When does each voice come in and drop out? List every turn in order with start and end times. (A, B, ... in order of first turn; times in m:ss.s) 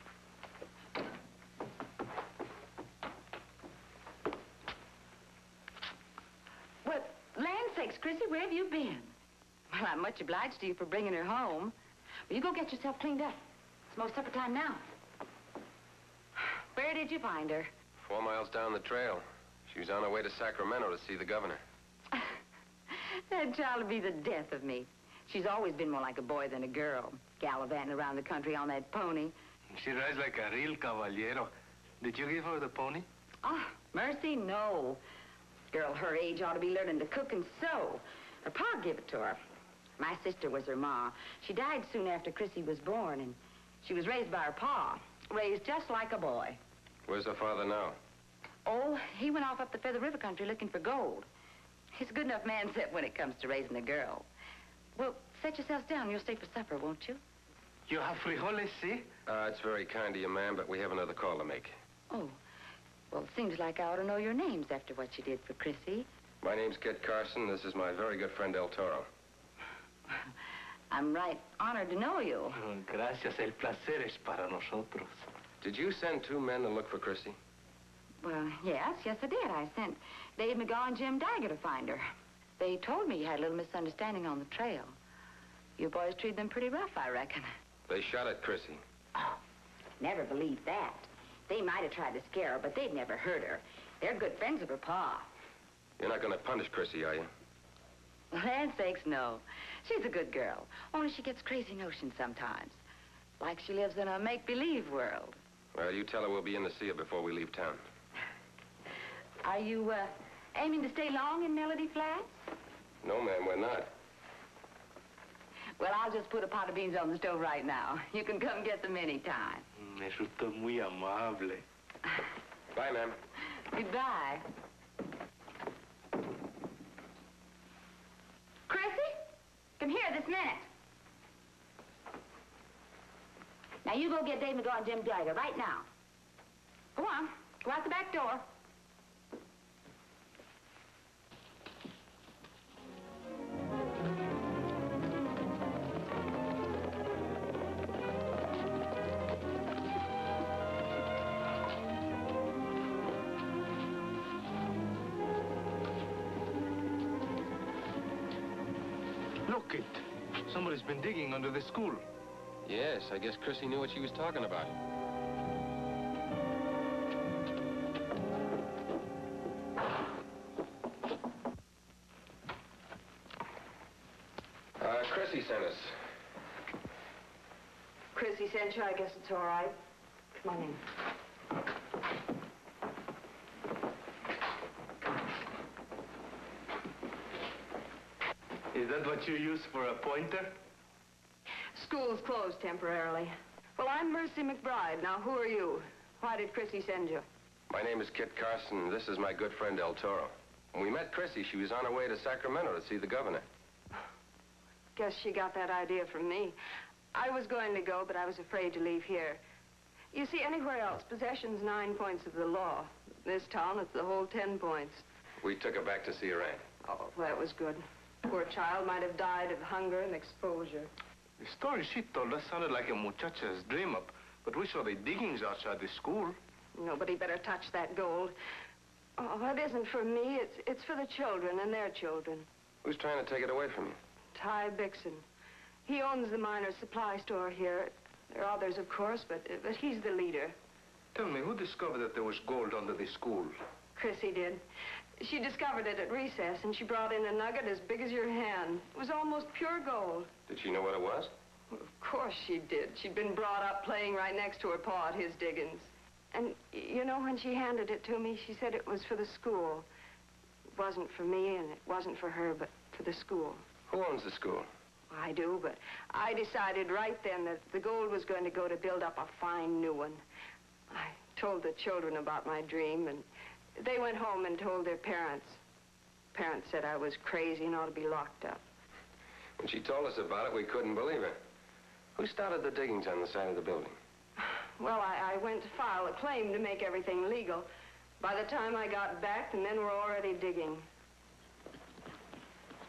0:06.8-0:09.1 A
0:09.7-0:11.7 A
0:12.3-0:14.8 A
0:16.7-0:17.7 A
0:18.0-0:21.6 B
0:23.0-0:29.4 A
0:29.7-0:33.0 C
0:33.4-0:35.0 A
0:35.7-0:39.4 A
0:40.0-0:46.6 A
0:47.1-0:48.0 B
0:48.6-0:51.3 A
0:51.9-0:54.3 A
0:55.0-0:57.2 A
0:57.9-0:59.1 C
0:59.2-1:01.7 B
1:02.1-1:02.4 A
1:03.1-1:06.1 A
1:06.4-1:09.1 B
1:10.9-1:12.6 A
1:12.5-1:15.2 C
1:15.6-1:17.4 B
1:18.2-1:22.1 A
1:22.6-1:25.0 A
1:25.8-1:27.5 A
1:27.9-1:28.8 B
1:29.1-1:29.4 A
1:30.0-1:35.3 A
1:36.0-1:37.3 B
1:38.3-1:42.8 A
1:43.4-1:45.4 A
1:45.7-1:47.8 B
1:49.4-1:52.3 A
1:53.0-1:53.9 B
1:55.8-1:59.6 A
1:59.8-2:01.6 C
2:02.7-2:03.2 B
2:03.7-2:04.4 A
2:08.7-2:09.2 A
2:09.8-2:10.7 A
2:13.8-2:15.9 A
2:17.0-2:18.4 A
2:39.4-2:42.0 C
2:42.6-2:44.7 B
2:54.8-2:55.9 B
2:58.1-2:59.8 D
3:00.3-3:00.8 D
3:08.7-3:10.5 C
3:11.7-3:17.2 D
3:17.7-3:23.4 B
3:24.9-3:26.6 D
3:27.1-3:29.4 D
3:30.1-3:35.0 D
3:35.4-3:36.6 B
3:36.8-3:40.9 D
3:41.4-3:46.4 C
3:46.7-3:48.3 D
3:49.2-3:52.5 D
3:52.8-3:54.0 B
3:54.3-3:55.2 D
3:55.8-4:00.6 D
4:01.1-4:03.6 C
4:04.0-4:04.6 D
4:05.2-4:10.3 D
4:10.5-4:11.3 B
4:11.7-4:19.9 D
4:20.7-4:23.6 D
4:23.9-4:24.7 B
4:25.1-4:30.2 D
4:30.9-4:35.6 D
4:36.3-4:38.6 D
4:39.6-4:41.4 B
4:42.2-4:44.0 B
4:44.8-4:47.7 D
4:48.2-4:50.8 D